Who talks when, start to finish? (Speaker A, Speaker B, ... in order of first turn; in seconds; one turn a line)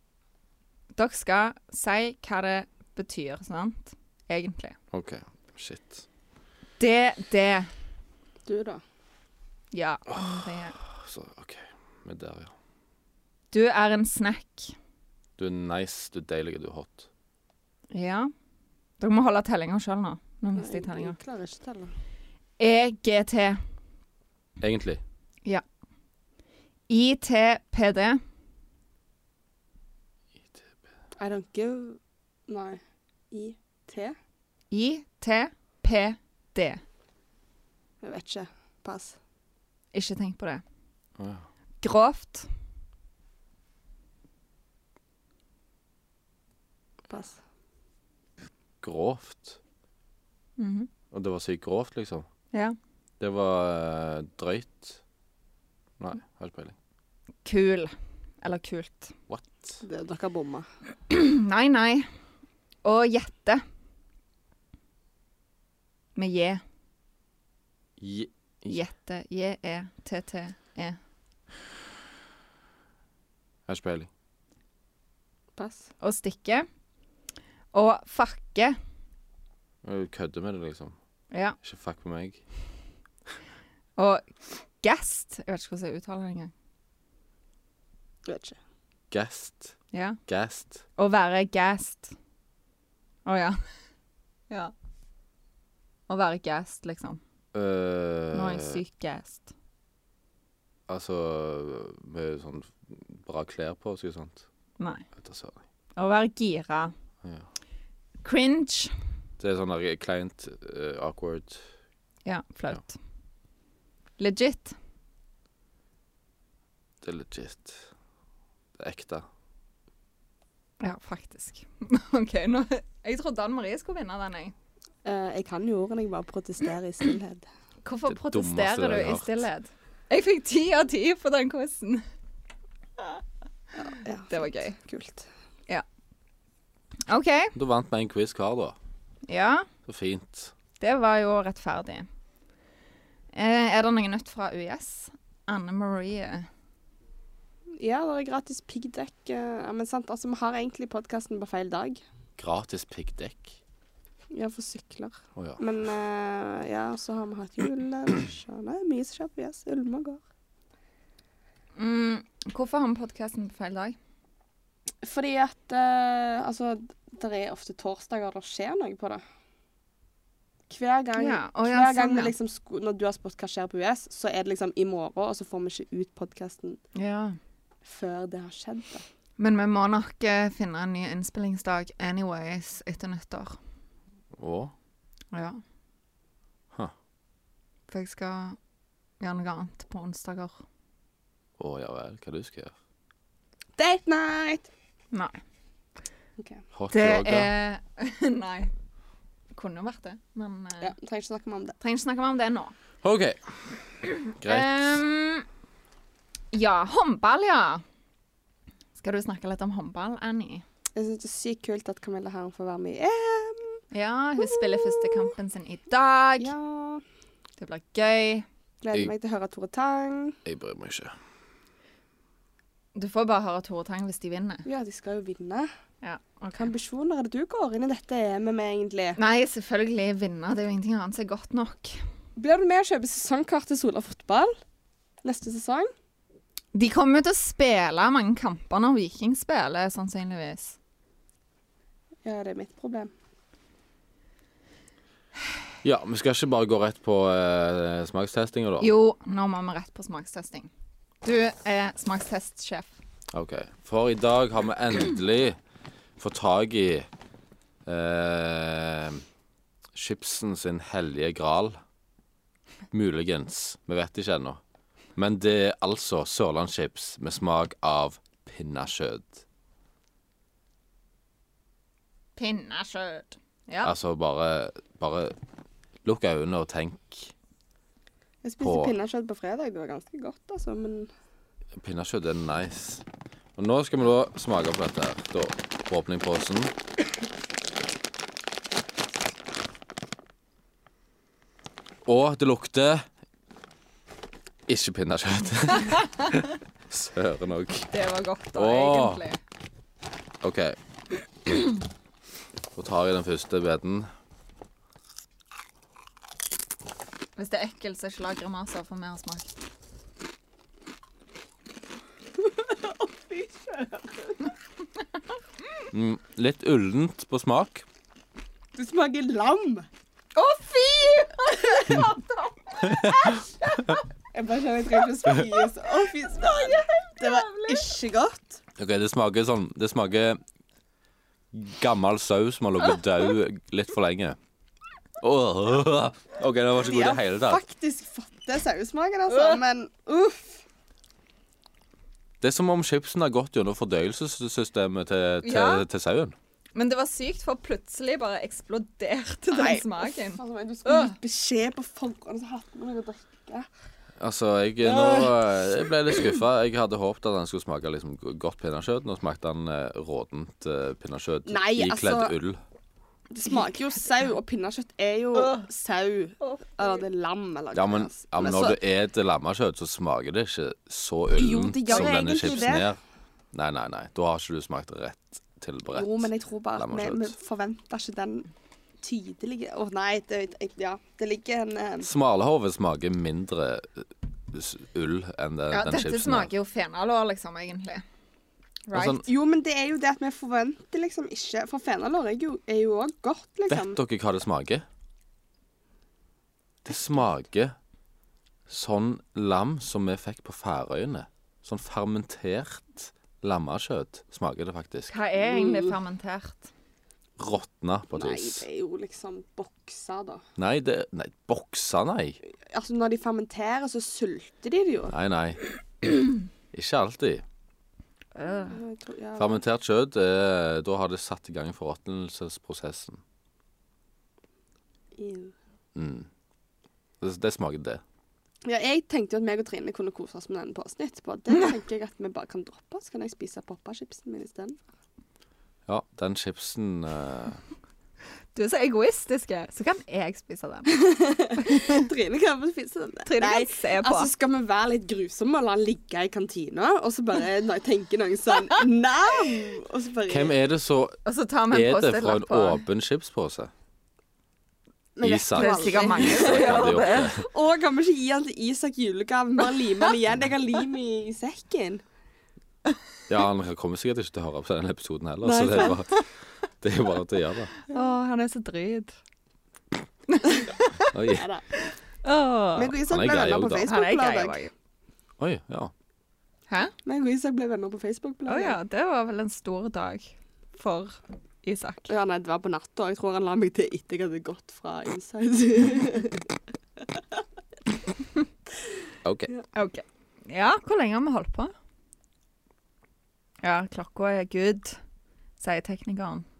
Speaker A: 0.9-4.8
Speaker B: 4.9-6.1
Speaker A: 6.8-7.7
Speaker C: 8.4-8.8
Speaker A: 9.7-10.8
Speaker B: 10.1-12.5
Speaker A: 13.5-14.8
Speaker B: 15.4-17.1
Speaker A: 17.9-18.3
Speaker A: 19.0-21.2
Speaker C: 20.6-21.9
Speaker A: 22.6-23.6
Speaker B: 24.6-25.0
Speaker A: 26.9-28.2
Speaker C: 31.2-34.1
Speaker A: 34.7-36.8
Speaker C: 38.0-39.2
Speaker A: 39.9-40.6
Speaker B: 41.2-41.4
Speaker A: 41.8-42.5
Speaker C: 47.1-47.4
Speaker B: 48.8-49.6
Speaker A: 50.6-50.9
Speaker B: 51.1-52.2
Speaker B: 53.2-55.0
Speaker B: 56.0-56.8
Speaker A: 57.4-59.1
Speaker B: 59.3-59.8
Speaker C: 59.8-60.7
Speaker A: 61.1-62.1
Speaker A: 62.8-63.6
Speaker A: 66.2-66.6
Speaker B: 68.0-68.8
Speaker A: 68.7-71.0
Speaker B: 73.7-74.1
Speaker C: 75.5-75.9
Speaker A: 76.0-76.7
Speaker A: 77.7-78.8
Speaker B: 79.8-81.0
Speaker A: 81.3-81.6
Speaker B: 81.6-82.4
Speaker A: 84.0-84.3
Speaker A: 84.8-86.5
Speaker C: 88.2-88.6
Speaker B: 89.1-90.8
Speaker A: 89.9-90.2
Speaker A: 91.0-92.1
Speaker A: 93.2-93.6
Speaker A: 96.1-97.2
Speaker B: 97.5-98.8
Speaker A: 98.3-99.5
Speaker B: 100.9-104.5
Speaker A: 104.8-105.0
Speaker B: 105.2-105.6
Speaker A: 106.0-106.9
Speaker B: 107.2-107.5
Speaker A: 108.2-108.9
Speaker B: 109.4-111.7
Speaker A: 112.2-113.0
Speaker A: 114.2-114.8
Speaker B: 117.0-117.9
Speaker B: 118.8-119.2
Speaker A: 120.8-124.5
Speaker C: 125.0-127.5
Speaker A: 127.8-132.0
Speaker B: 128.1-129.4
Speaker C: 133.8-135.3
Speaker A: 134.3-134.8
Speaker A: 137.1-137.5
Speaker B: 137.5-138.8
Speaker A: 139.3-139.7
Speaker B: 139.9-140.5
Speaker A: 140.8-142.1
Speaker A: 143.3-146.5
Speaker C: 147.8-152.0
Speaker B: 152.4-153.6
Speaker C: 154.3-160.2
Speaker A: 161.8-163.9
Speaker C: 165.0-169.2
Speaker C: 170.7-176.8
Speaker A: 171.2-172.3
Speaker A: 176.9-177.4
Speaker C: 177.8-179.0
Speaker A: 179.4-183.6
Speaker B: 184.3-184.7
Speaker A: 185.3-185.6
Speaker A: 187.9-188.6
Speaker A: 189.2-190.6
Speaker B: 191.6-192.7
Speaker C: 193.8-194.7
Speaker C: 196.4-196.6
Speaker B: 196.7-197.5
Speaker A: 196.9-198.7
Speaker A: 199.5-200.9
Speaker C: 200.8-201.8
Speaker A: 201.8-202.7
Speaker B: 203.0-203.6
Speaker B: 204.4-205.0
Speaker A: 204.4-205.4
Speaker A: 206.5-207.8
Speaker A: 208.9-210.6
Speaker C: 210.9-213.8
Speaker A: 213.9-216.5
Speaker C: 214.4-215.3
Speaker C: 216.4-217.0
Speaker A: 217.6-218.4
Speaker C: 218.8-220.4
Speaker B: 220.4-221.1
Speaker A: 222.9-224.7
Speaker C: 224.6-225.7
Speaker A: 226.0-226.7
Speaker C: 226.6-229.2
Speaker A: 229.2-232.0
Speaker C: 232.3-234.5
Speaker C: 235.2-235.9
Speaker A: 236.7-240.8
Speaker C: 242.2-243.1
Speaker B: 245.8-248.9
Speaker A: 248.8-250.7
Speaker A: 251.2-252.9
Speaker B: 253.3-255.6
Speaker B: 256.2-257.1
Speaker B: 257.9-259.2
Speaker B: 259.9-261.8
Speaker B: 262.9-264.6
Speaker B: 265.1-269.4
Speaker A: 272.4-273.9
Speaker B: 273.8-275.4
Speaker B: 276.0-277.3
Speaker C: 278.4-281.1
Speaker B: 278.6-278.9
Speaker B: 281.8-283.0
Speaker B: 283.6-286.7
Speaker B: 292.1-293.1
Speaker B: 294.7-297.9
Speaker A: 297.9-299.4
Speaker B: 298.6-299.2
Speaker B: 300.4-300.8
Speaker B: 302.8-304.1
Speaker A: 307.4-309.5
Speaker C: 312.5-314.3
Speaker B: 315.9-317.9
Speaker C: 318.7-319.9
Speaker A: 320.3-324.0
Speaker B: 322.8-323.4
Speaker C: 324.3-328.6
Speaker A: 326.0-328.0
Speaker B: 328.8-330.4
Speaker B: 331.5-334.4
Speaker B: 335.2-337.6
Speaker C: 336.8-340.6
Speaker B: 342.4-346.3
Speaker A: 345.4-345.8
Speaker A: 346.7-351.2
Speaker C: 349.5-353.7
Speaker B: 354.2-362.6
Speaker C: 354.8-355.9
Speaker C: 361.5-362.3
Speaker C: 363.3-368.8
Speaker B: 367.7-373.0
Speaker C: 371.3-372.9
Speaker B: 373.5-377.4
Speaker C: 375.9-378.5
Speaker C: 379.0-382.1
Speaker B: 382.0-386.5
Speaker A: 385.7-388.0
Speaker A: 388.9-389.2
Speaker B: 388.9-389.2
Speaker C: 389.1-394.0
Speaker B: 393.7-394.8
Speaker B: 396.8-397.8
Speaker B: 398.7-405.1
Speaker A: 405.1-406.7
Speaker C: 405.4-405.9
Speaker B: 407.4-408.6
Speaker C: 408.1-410.4
Speaker B: 410.6-412.4
Speaker C: 412.7-415.1
Speaker B: 415.1-415.6
Speaker B: 416.7-417.4
Speaker A: 418.4-418.8
Speaker C: 418.5-419.6
Speaker B: 419.4-423.2
Speaker C: 425.1-425.5
Speaker B: 425.9-426.3
Speaker B: 427.2-428.0
Speaker C: 428.6-434.8
Speaker B: 435.9-437.6
Speaker A: 438.5-442.1
Speaker C: 440.9-450.5
Speaker A: 443.2-444.3
Speaker B: 450.3-451.2
Speaker A: 451.2-452.8
Speaker B: 451.7-453.7
Speaker C: 455.1-462.0
Speaker B: 455.2-457.4
Speaker A: 455.5-457.3
Speaker B: 463.3-466.1
Speaker C: 465.4-466.0
Speaker B: 466.8-467.7
Speaker A: 467.9-469.1
Speaker A: 470.3-471.1
Speaker B: 471.1-471.5
Speaker C: 471.3-471.6
Speaker A: 471.8-472.9
Speaker C: 472.7-474.6
Speaker B: 473.0-473.9
Speaker A: 473.8-474.7
Speaker B: 475.4-475.9
Speaker C: 477.0-478.8
Speaker A: 478.5-482.1
Speaker C: 482.1-486.5
Speaker B: 489.2-489.5
Speaker A: 489.7-491.7
Speaker A: 493.6-495.0
Speaker A: 495.6-496.4